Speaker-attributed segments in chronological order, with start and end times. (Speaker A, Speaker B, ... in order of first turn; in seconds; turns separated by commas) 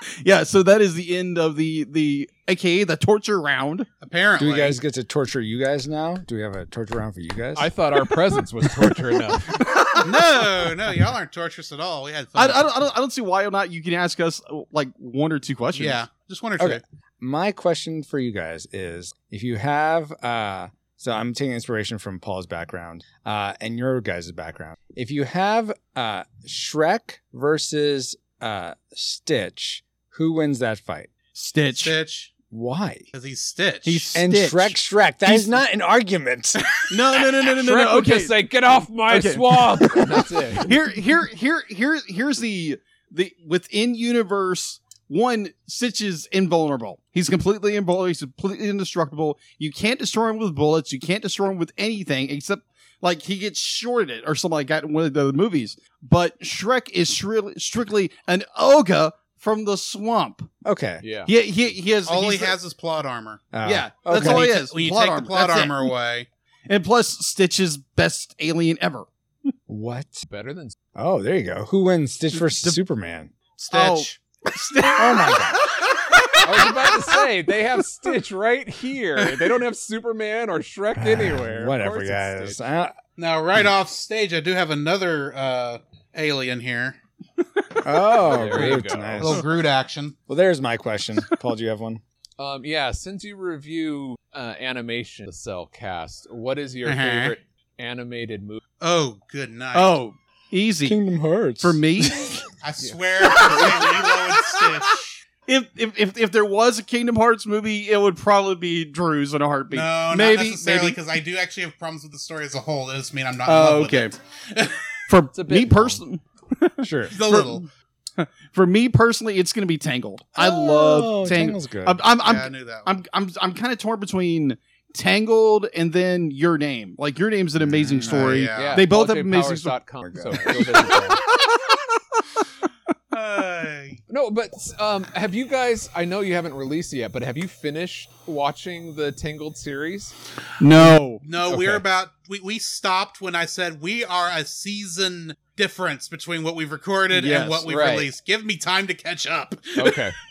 Speaker A: 0.2-3.9, Speaker B: 4.0-4.8, Speaker C: 4.4-7.7, Speaker D: 7.6-9.6, Speaker A: 9.6-10.5, Speaker B: 10.0-12.7, Speaker A: 12.4-16.0, Speaker B: 15.7-16.8, Speaker C: 16.6-31.1, Speaker A: 31.4-31.9, Speaker B: 31.8-32.3, Speaker C: 32.5-33.1, Speaker B: 33.1-34.1, Speaker A: 33.9-35.5, Speaker C: 34.1-36.6, Speaker A: 36.9-38.4, Speaker D: 37.5-40.8, Speaker A: 39.1-60.5, Speaker C: 60.6-61.0, Speaker D: 61.0-61.3, Speaker A: 61.3-62.6, Speaker B: 62.0-63.5, Speaker C: 63.5-64.5, Speaker A: 63.6-65.9, Speaker B: 64.1-66.3, Speaker A: 66.7-69.1, Speaker C: 69.7-70.2, Speaker D: 70.2-70.8, Speaker C: 71.0-73.3, Speaker A: 72.3-72.8, Speaker B: 73.6-74.2, Speaker A: 73.7-76.7, Speaker C: 75.0-75.6, Speaker D: 76.4-82.6, Speaker C: 81.0-83.0, Speaker B: 83.2-87.0, Speaker C: 87.8-89.4, Speaker D: 88.2-89.3, Speaker B: 88.5-90.2, Speaker C: 90.3-92.0, Speaker D: 92.4-98.6, Speaker B: 96.9-97.3, Speaker B: 98.8-100.0, Speaker A: 99.7-101.0, Speaker C: 100.8-102.4, Speaker A: 101.6-102.4, Speaker B: 102.6-105.2, Speaker A: 103.2-104.7, Speaker A: 105.5-111.0, Speaker B: 109.7-114.8, Speaker A: 113.5-114.1, Speaker A: 115.1-117.7, Speaker D: 115.3-116.0, Speaker C: 116.8-117.2, Speaker B: 117.1-117.7, Speaker A: 118.2-129.8, Speaker C: 120.4-122.0, Speaker B: 122.2-123.0, Speaker C: 127.6-128.3, Speaker B: 128.0-128.9, Speaker D: 128.5-131.2, Speaker C: 130.0-131.0, Speaker A: 130.3-132.2, Speaker B: 133.1-134.0, Speaker D: 134.1-140.1, Speaker A: 140.6-141.2, Speaker B: 141.2-150.0, Speaker D: 141.5-141.8, Speaker A: 147.1-147.7, Speaker D: 147.7-148.1, Speaker D: 149.8-150.2